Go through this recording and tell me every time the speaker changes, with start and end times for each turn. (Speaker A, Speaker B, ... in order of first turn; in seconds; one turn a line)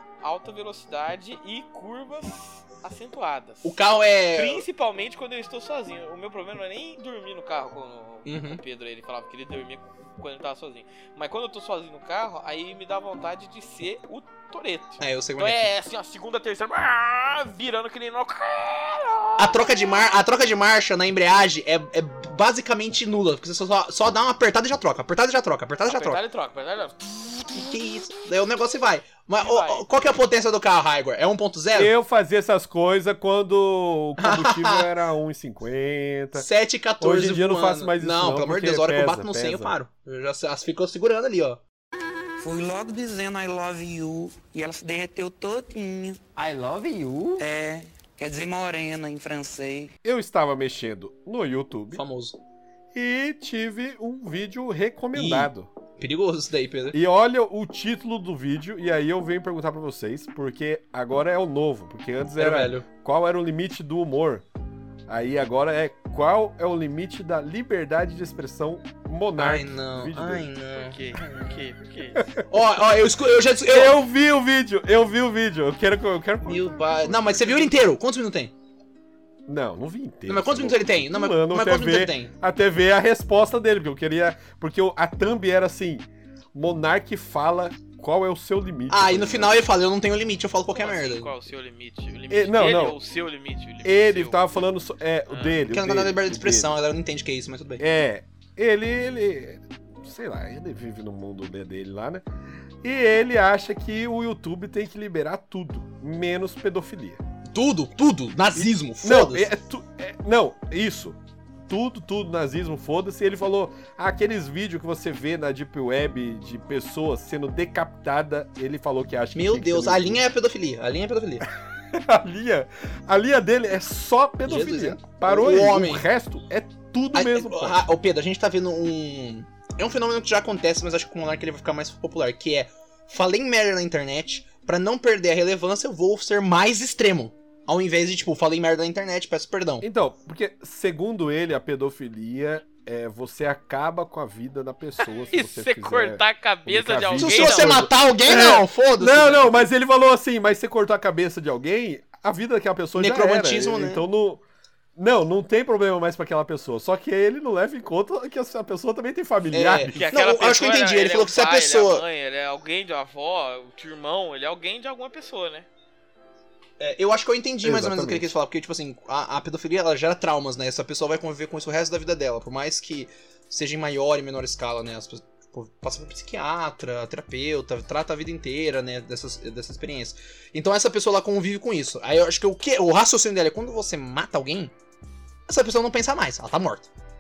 Speaker A: 0.2-3.8
Speaker B: 3.6-4.6
Speaker A: 4.3-20.1
Speaker B: 8.3-8.6
Speaker B: 15.0-15.7
Speaker B: 19.4-26.2
Speaker A: 25.9-27.7
Speaker B: 27.5-31.9
Speaker A: 29.4-29.9
Speaker C: 31.7-36.5
Speaker B: 34.2-34.9
Speaker B: 36.4-41.6
Speaker C: 37.0-39.8
Speaker D: 42.4-49.9
Speaker C: 50.0-52.0
Speaker B: 51.9-52.4
Speaker C: 52.9-55.7
Speaker B: 55.1-57.0
Speaker C: 56.9-64.5
Speaker B: 62.4-62.9
Speaker C: 65.1-70.5
Speaker B: 69.4-71.5
Speaker A: 70.7-72.3
Speaker C: 72.2-72.5
Speaker B: 72.5-74.0
Speaker C: 73.7-77.8
Speaker B: 76.4-78.5
Speaker C: 79.5-89.6
Speaker B: 80.3-82.3
Speaker B: 88.9-91.3
Speaker A: 90.7-94.6
Speaker C: 92.3-93.0
Speaker C: 93.8-96.8
Speaker A: 95.3-95.6
Speaker B: 95.7-97.8
Speaker C: 97.8-102.2
Speaker C: 102.8-107.2
Speaker B: 107.5-109.5
Speaker C: 108.5-120.2
Speaker B: 119.3-121.5
Speaker C: 121.9-127.8
Speaker B: 124.4-126.1
Speaker B: 127.1-139.9
Speaker C: 139.8-154.4
Speaker A: 145.0-147.8
Speaker B: 147.2-149.7
Speaker B: 153.0-154.0
Speaker C: 155.0-160.1
Speaker B: 159.5-162.1
Speaker A: 160.0-165.7
Speaker B: 166.8-184.7
Speaker C: 167.6-168.3
Speaker B: 185.5-186.9